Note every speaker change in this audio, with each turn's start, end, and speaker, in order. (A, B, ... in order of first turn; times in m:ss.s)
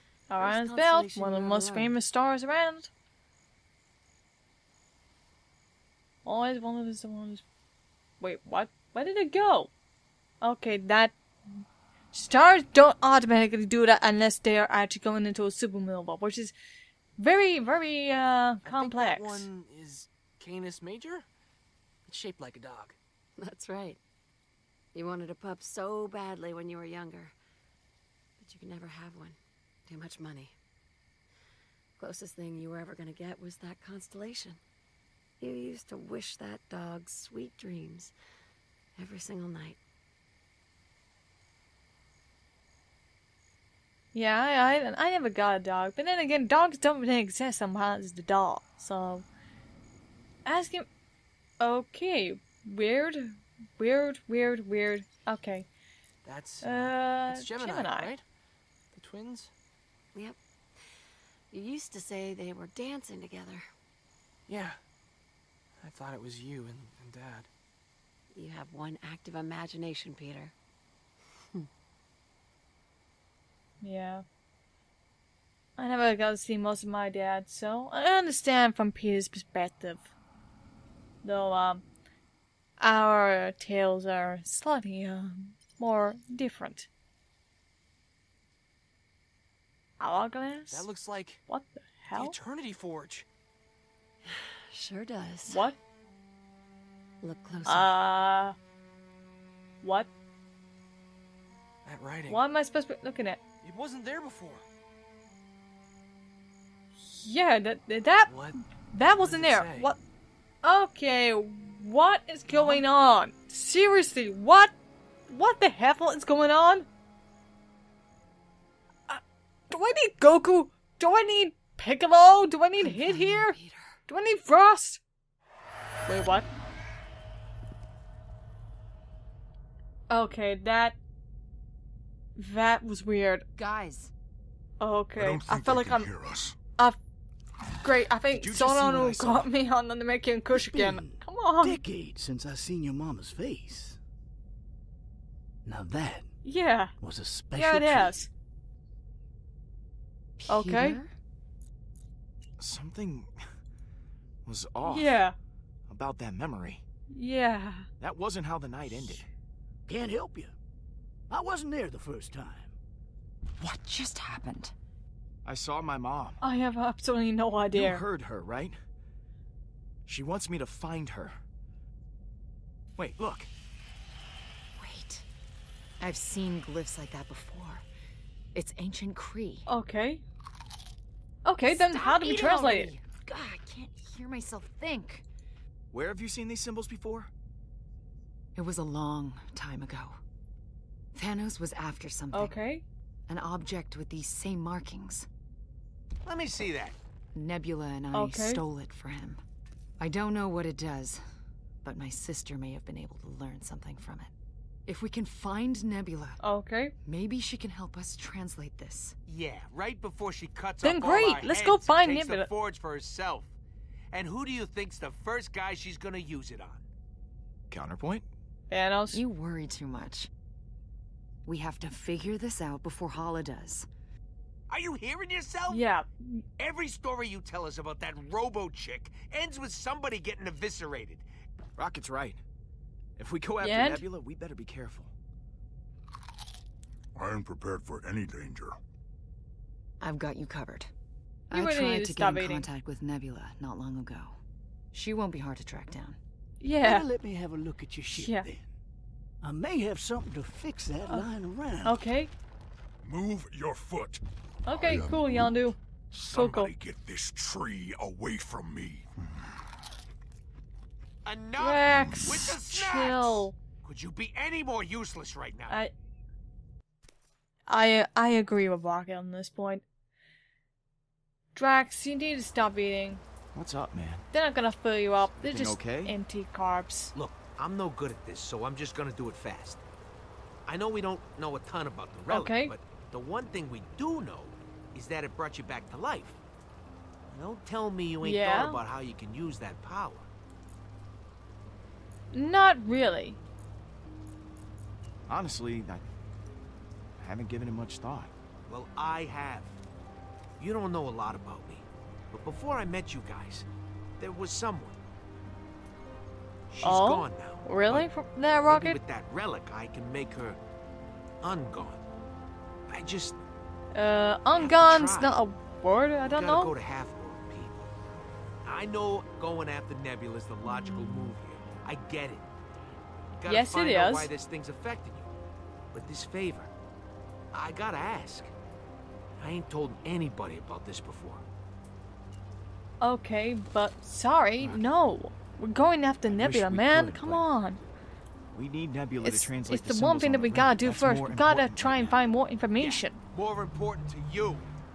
0:00.3-0:02.9 A
0:00.4-0:01.9 B
0:06.2-0:07.4 A
0:08.2-0:09.7 A
0:10.4-0:11.1 A
0:12.1-0:16.5 A
0:17.2-0:19.4 A
0:18.6-0:21.3 C
0:22.0-0:23.0 C
0:23.4-0:24.0 B
0:24.9-0:27.3 B
0:28.4-0:30.6 B
0:32.0-0:34.6 B
0:35.4-0:38.1 B
0:39.0-0:39.8 B
0:44.1-0:49.2 A
0:50.4-0:50.9 A
0:51.6-0:55.7 A
0:56.2-0:58.2 C
0:56.6-0:58.1 A
0:58.9-0:59.5 C
1:00.1-1:00.8 B
1:01.5-1:03.6 B
1:04.5-1:04.8 C
1:05.8-1:07.5 C
1:08.3-1:10.5 B
1:13.8-1:14.2 A
1:15.8-1:20.1 A
1:21.2-1:21.8 A
1:22.8-1:26.9 A
1:30.0-1:30.9 A
1:30.7-1:31.4 C
1:31.5-1:32.4 A
1:32.1-1:33.2 C
1:34.2-1:35.7 B
1:35.5-1:35.8 A
1:37.2-1:37.9 B
1:37.6-1:38.6 A
1:39.8-1:40.1 A
1:41.8-1:42.4 C
1:42.3-1:43.4 A
1:43.6-1:44.6 C
1:47.1-1:48.4 A
1:48.3-1:49.9 C
1:48.9-1:50.0 A
1:50.6-1:54.7 A
1:52.5-1:52.8 C
1:55.3-1:56.9 A
1:59.1-2:03.6 A
2:02.8-2:03.9 D
2:04.1-2:05.0 A
2:06.0-2:06.5 A
2:10.1-2:11.0 A
2:12.4-2:13.4 A
2:13.6-2:14.1 D
2:14.8-2:16.1 A
2:15.2-2:16.6 E
2:17.8-2:21.8 A
2:18.3-2:19.5 F
2:20.5-2:24.0 G
2:25.6-2:26.3 G
2:26.4-2:26.9 A
2:27.0-2:28.2 G
2:27.5-2:28.3 A
2:30.4-2:31.1 D
2:30.5-2:31.0 A
2:32.6-2:33.3 F
2:34.4-2:35.2 F
2:34.8-2:35.3 A
2:35.9-2:36.8 F
2:37.1-2:37.9 A
2:38.0-2:39.2 F
2:39.9-2:40.5 G
2:41.3-2:42.8 G
2:43.6-2:44.7 D
2:45.4-2:46.4 F
2:46.4-2:48.0 A
2:47.7-2:48.8 F
2:50.0-2:51.4 F
2:53.0-2:53.5 F
2:54.8-2:55.2 D
2:56.0-2:57.8 D
2:58.5-2:59.7 D
2:59.7-3:00.2 A
3:01.4-3:02.9 A
3:01.6-3:05.2 D
3:05.9-3:07.3 F
3:08.5-3:10.2 D
3:11.1-3:12.5 D
3:12.3-3:12.8 A
3:13.3-3:15.3 D
3:16.2-3:17.0 H
3:17.3-3:19.4 D
3:18.1-3:18.6 A
3:20.0-3:21.2 D
3:21.8-3:24.3 D
3:24.8-3:26.4 D
3:26.4-3:26.9 A
3:27.0-3:29.2 D
3:29.3-3:33.5 H
3:30.8-3:32.5 A
3:34.1-3:36.8 H
3:37.7-3:38.2 F
3:38.7-3:39.2 A
3:39.1-3:40.3 D
3:41.4-3:43.9 D
3:44.7-3:45.8 H
3:45.7-3:46.4 A
3:46.6-3:51.2 H
3:51.8-3:52.4 F
3:53.2-3:55.1 F
3:53.6-3:54.0 A
3:57.1-3:58.8 E
4:00.0-4:00.9 D
4:01.5-4:04.4 D
4:01.5-4:02.7 A
4:04.9-4:06.2 D
4:06.6-4:07.0 A
4:06.8-4:08.7 G
4:08.1-4:08.5 A
4:09.4-4:12.0 G
4:11.8-4:12.3 A
4:13.0-4:19.1 E
4:14.6-4:16.7 A
4:21.2-4:25.8 H
4:21.6-4:23.6 A
4:21.9-4:22.5 E
4:27.7-4:29.8 A
4:31.5-4:33.2 A
4:33.5-4:34.2 F
4:34.3-4:37.1 A
4:35.3-4:36.2 F
4:37.1-4:39.8 H
4:40.6-4:46.4 H
4:42.3-4:42.7 A
4:47.3-4:50.3 H
4:48.2-4:48.8 A
4:52.3-4:53.4 A
4:55.3-4:56.0 F
4:57.2-4:58.3 F
4:58.7-4:59.8 H
5:00.6-5:03.7 H
5:04.2-5:05.0 H
5:06.7-5:08.1 H
5:06.8-5:09.0 A
5:08.7-5:10.6 H
5:11.4-5:12.0 H
5:12.9-5:13.4 H
5:13.9-5:16.7 A
5:14.5-5:15.4 H
5:16.3-5:17.9 H
5:18.6-5:22.5 H
5:23.4-5:25.3 H
5:23.4-5:24.3 A
5:25.9-5:26.7 H
5:27.5-5:28.5 H
5:29.4-5:31.4 H
5:33.0-5:37.8 A
5:36.3-5:37.4 F
5:38.5-5:42.2 F
5:39.2-5:43.2 A
5:42.8-5:44.7 H